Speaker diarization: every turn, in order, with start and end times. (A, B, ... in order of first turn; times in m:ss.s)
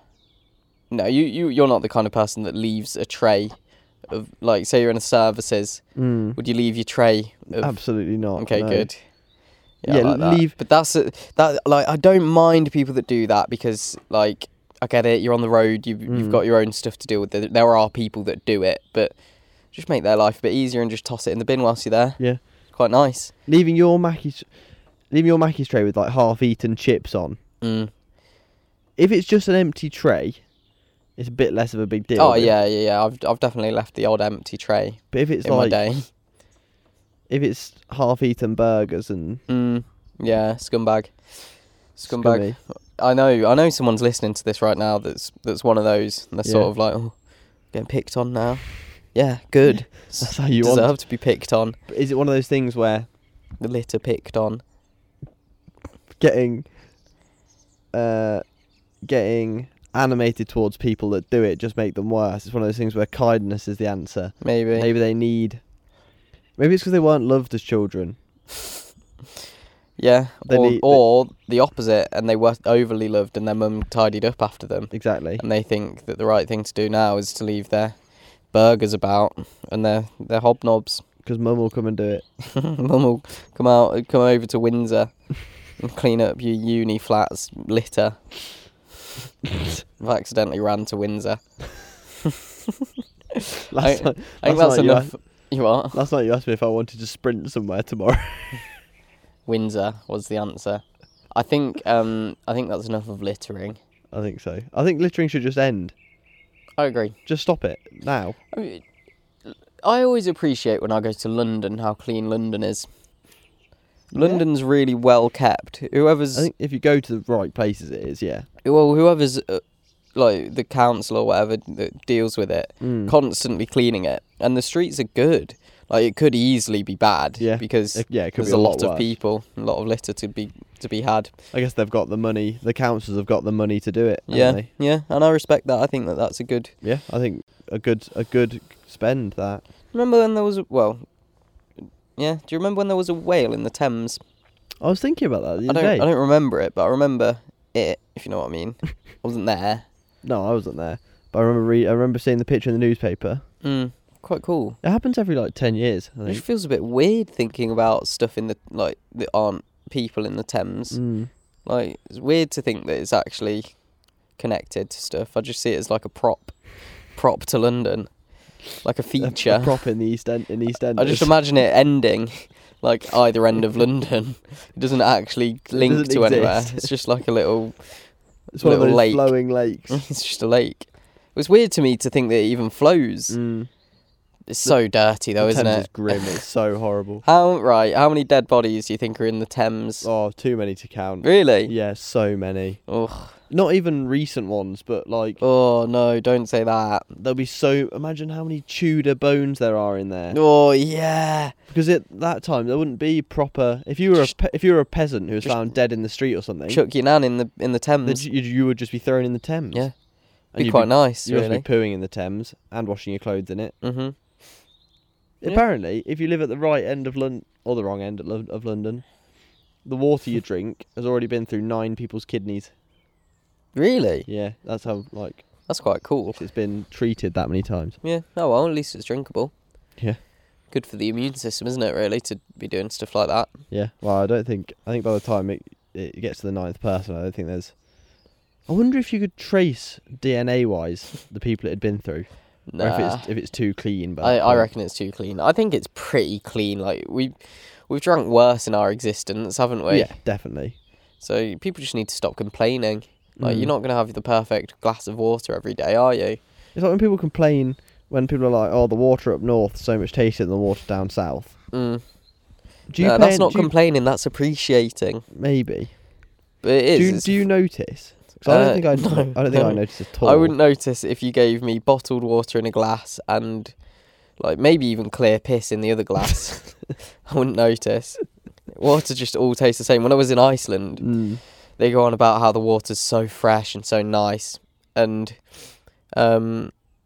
0:00.9-0:23.3 A
0:06.0-0:06.4 B
0:07.6-0:09.1 B
0:09.8-0:10.6 B
0:16.1-0:16.4 B
0:22.2-0:22.4 B
0:23.5-0:24.6 B
0:25.1-0:27.4 B
0:27.6-0:27.9 A
0:29.0-0:30.4 B
0:31.2-0:32.5 B
0:32.2-0:36.0 A
0:35.1-0:35.8 B
0:37.3-0:39.4 B
0:39.5-0:51.8 A
0:42.1-0:42.6 B
0:46.4-0:46.7 B
0:50.1-0:51.0 B
0:51.9-0:53.1 B
0:53.6-0:54.6 A
0:56.2-0:56.7 B
0:57.9-0:58.4 B
0:59.0-1:05.6 B
1:04.4-1:04.9 A
1:06.6-1:08.2 B
1:10.0-1:18.0 A
1:10.4-1:11.0 B
1:14.9-1:15.4 B
1:18.5-1:21.0 A
1:21.2-1:22.2 B
1:22.5-1:28.6 A
1:30.0-1:32.1 A
1:33.7-1:38.7 B
1:33.8-1:36.0 A
1:39.5-1:43.8 A
1:44.1-1:46.0 B
1:46.8-1:47.2 A
1:47.3-1:48.4 B
1:48.5-1:48.8 A
1:49.5-1:52.9 A
1:54.1-1:54.4 B
1:54.1-1:56.5 A
1:56.4-1:58.5 B
1:58.6-1:59.6 A
2:00.1-2:11.3 A
2:02.8-2:03.1 B
2:07.4-2:09.1 B
2:11.5-2:14.7 B
2:14.3-2:16.7 A
2:16.8-2:19.6 B
2:19.9-2:21.1 A
2:22.2-2:24.2 A
2:24.8-2:26.1 B
2:25.7-2:29.9 A
2:30.2-2:33.4 B
2:33.6-2:34.8 A
2:34.8-2:36.4 B
2:36.3-2:41.0 A
2:40.9-2:41.3 B
2:41.6-2:43.8 A
2:44.4-2:49.8 A
2:49.2-2:51.3 B
2:51.0-2:59.3 A
2:55.7-2:56.9 B
2:58.5-3:00.0 B
2:59.9-3:03.4 A
3:03.3-3:03.7 B
3:04.5-3:06.4 A
3:05.4-3:07.2 B
3:07.2-3:10.1 A
3:10.0-3:12.8 B
3:11.2-3:11.7 A
3:12.9-3:13.4 A
3:13.5-3:15.4 B
3:15.4-3:17.0 A
3:17.2-3:20.4 B
3:20.3-3:21.5 A
3:21.7-3:26.8 B
3:25.4-3:25.7 A
3:26.7-3:28.2 A
3:28.0-3:33.8 B
3:29.7-3:31.7 A
3:33.8-3:34.4 A
3:35.4-3:39.1 B
3:39.8-3:42.7 B
3:43.8-3:44.3 A
3:44.3-3:45.7 B
3:45.7-3:46.4 A
3:46.4-3:48.0 B
3:48.0-3:49.5 A
3:50.7-3:53.6 A
3:53.7-3:57.9 B
3:58.7-4:04.7 B
4:02.7-4:03.3 A
4:04.2-4:10.2 A
4:09.9-4:10.8 B
4:11.2-4:16.4 A
4:13.4-4:13.7 B
4:16.8-4:21.6 B
4:21.7-4:25.2 A
4:22.9-4:23.7 B
4:25.3-4:26.1 B
4:26.6-4:27.4 A
4:26.9-4:30.6 B
4:28.4-4:46.7 A
4:41.0-4:41.4 B